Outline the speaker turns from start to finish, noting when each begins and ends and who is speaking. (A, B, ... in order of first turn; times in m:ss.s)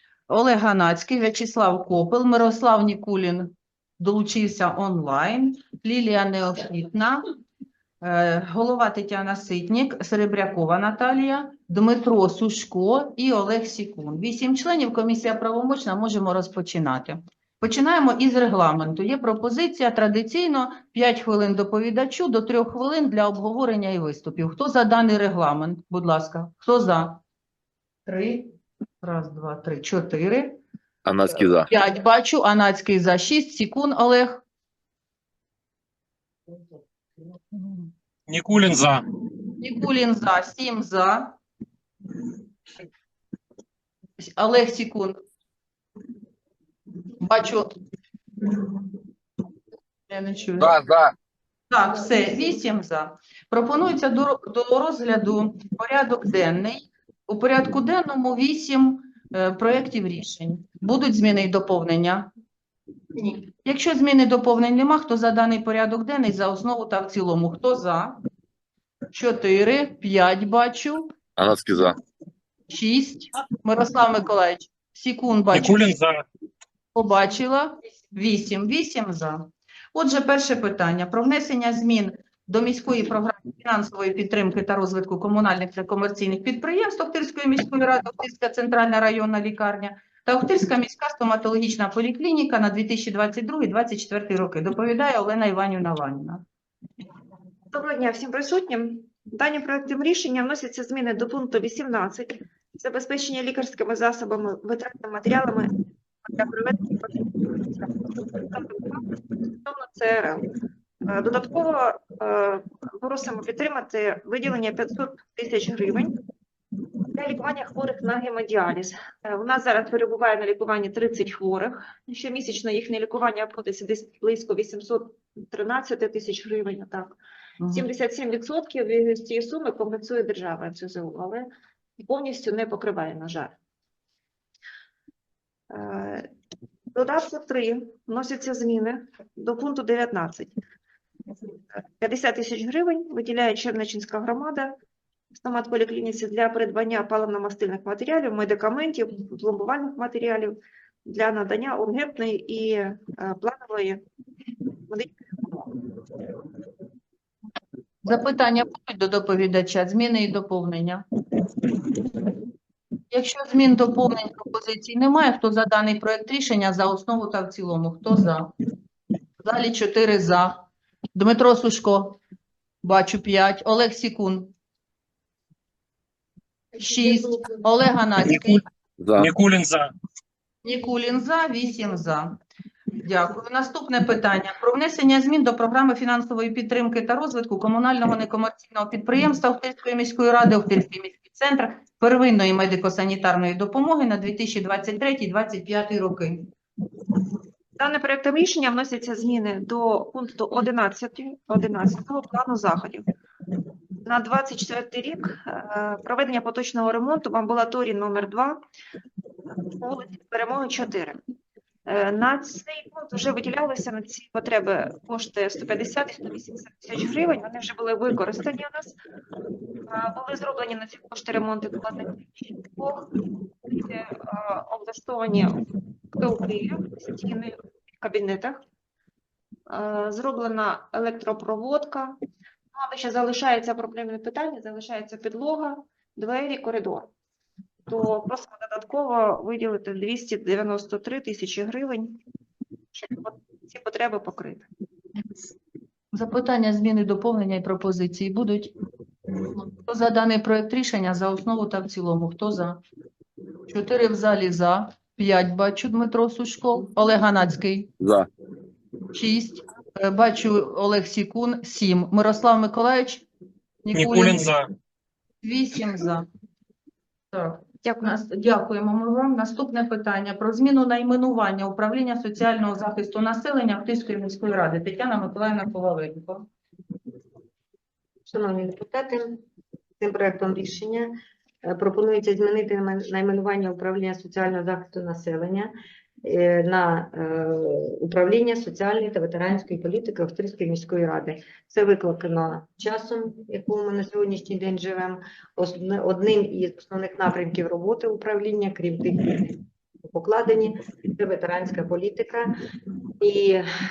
0:00.3-0:07.2 A
0:08.0-0:27.2 A
0:28.1-0:28.5 A
0:29.0-0:30.6 A
0:31.0-0:31.7 B
0:31.4-0:34.4 A
0:38.3-0:39.0 C
0:39.6-0:41.4 A
0:44.2-0:45.2 A
0:47.2-0:47.7 A
0:50.1-0:50.8 A
0:50.6-0:51.1 B
0:51.7-1:02.3 A
1:03.6-1:08.2 A
1:09.1-1:11.1 A
1:11.4-1:12.0 B
1:12.7-1:15.9 A
1:15.5-1:16.2 C
1:16.9-1:36.4 A
1:37.7-1:49.0 D
1:49.6-1:50.5 D
1:51.0-1:56.2 D
1:57.1-2:07.2 D
2:07.6-2:07.9 A
2:07.7-2:11.5 D
2:12.0-2:13.5 D
2:15.7-2:16.3 D
2:16.9-2:20.6 D
2:21.7-2:24.7 D
2:25.4-2:34.0 D
2:34.9-2:35.7 D
2:38.0-2:41.0 A
2:43.1-2:48.5 A
2:49.4-2:52.2 A
2:52.8-2:54.5 A
2:56.8-2:58.6 A
2:58.3-2:58.6 C
2:59.0-2:59.3 B
2:59.2-2:59.9 C
3:00.6-3:02.4 A
3:03.0-3:16.5 A
3:17.8-3:23.0 D
3:24.0-3:28.6 D
3:29.8-3:31.2 D
3:31.8-3:39.0 D
3:39.9-3:43.0 D
3:43.6-3:45.6 D
3:46.2-3:48.6 D
3:49.7-3:52.2 D
3:52.7-3:57.1 D
3:57.9-4:02.2 D
4:02.9-4:04.7 D
4:06.1-4:08.7 A
4:09.6-4:12.8 A
4:13.7-4:17.9 A
4:18.0-4:18.3 B
4:19.1-4:23.2 A
4:23.8-4:24.5 A
4:23.9-4:24.7 C
4:25.4-4:26.3 A
4:27.3-4:36.5 A
4:27.8-4:28.1 D
4:38.3-4:39.4 E
4:40.0-4:41.1 E
4:41.7-4:45.7 E
4:46.2-4:59.6 E
5:00.1-5:02.5 E
5:03.2-5:03.6 E